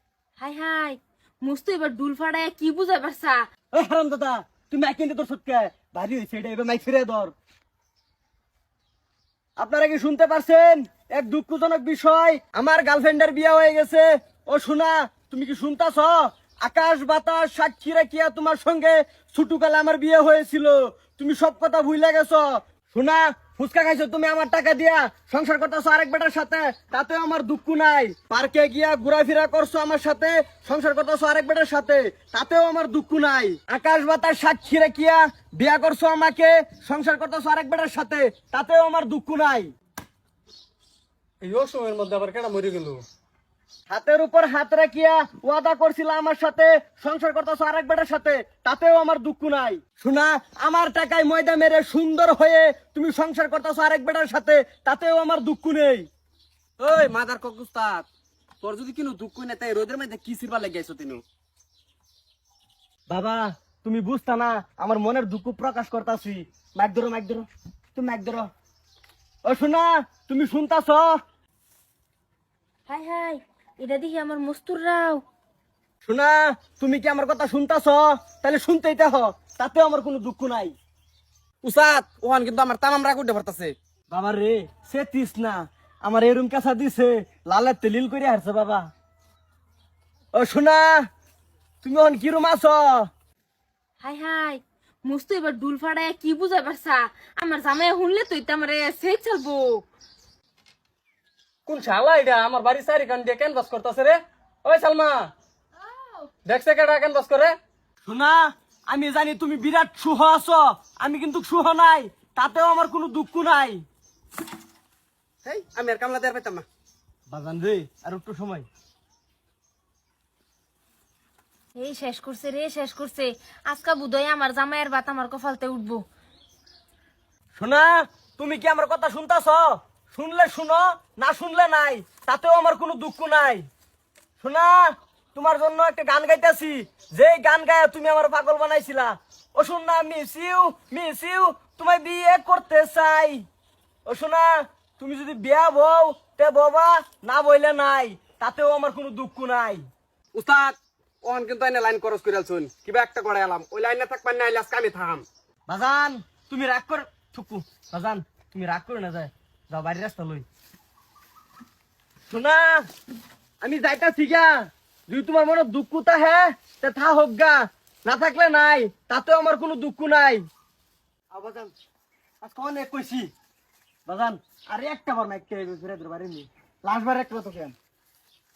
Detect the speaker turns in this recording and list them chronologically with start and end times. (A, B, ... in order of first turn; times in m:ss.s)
0:00.4-0:03.4 A
0:03.7-0:07.3 B
0:09.6-0:39.7 B
0:41.4-0:43.0 C
0:43.9-0:56.1 B
0:56.8-0:58.1 D
0:58.6-1:01.2 D
1:03.1-1:08.5 B
1:09.5-1:11.2 B
1:12.9-1:15.2 A
1:16.0-1:20.8 B
1:21.6-1:23.8 D
1:24.1-1:28.9 B
1:30.4-1:31.1 B
1:31.8-1:33.1 B
1:34.0-1:39.9 A
1:41.7-1:45.3 C
1:45.9-1:46.3 A
1:46.4-1:47.6 C
1:48.0-1:53.8 B
1:55.4-1:56.7 D
1:57.3-1:58.7 B
2:01.8-2:06.1 A
2:07.6-2:13.7 B
2:14.4-2:23.4 B
2:24.1-2:29.8 B
2:30.3-2:35.3 D
2:35.7-2:40.5 B
2:42.3-2:42.8 B
2:43.6-2:44.5 B
2:45.1-2:50.4 B
2:51.3-2:51.7 B
2:52.4-2:53.3 B
2:54.1-2:57.7 B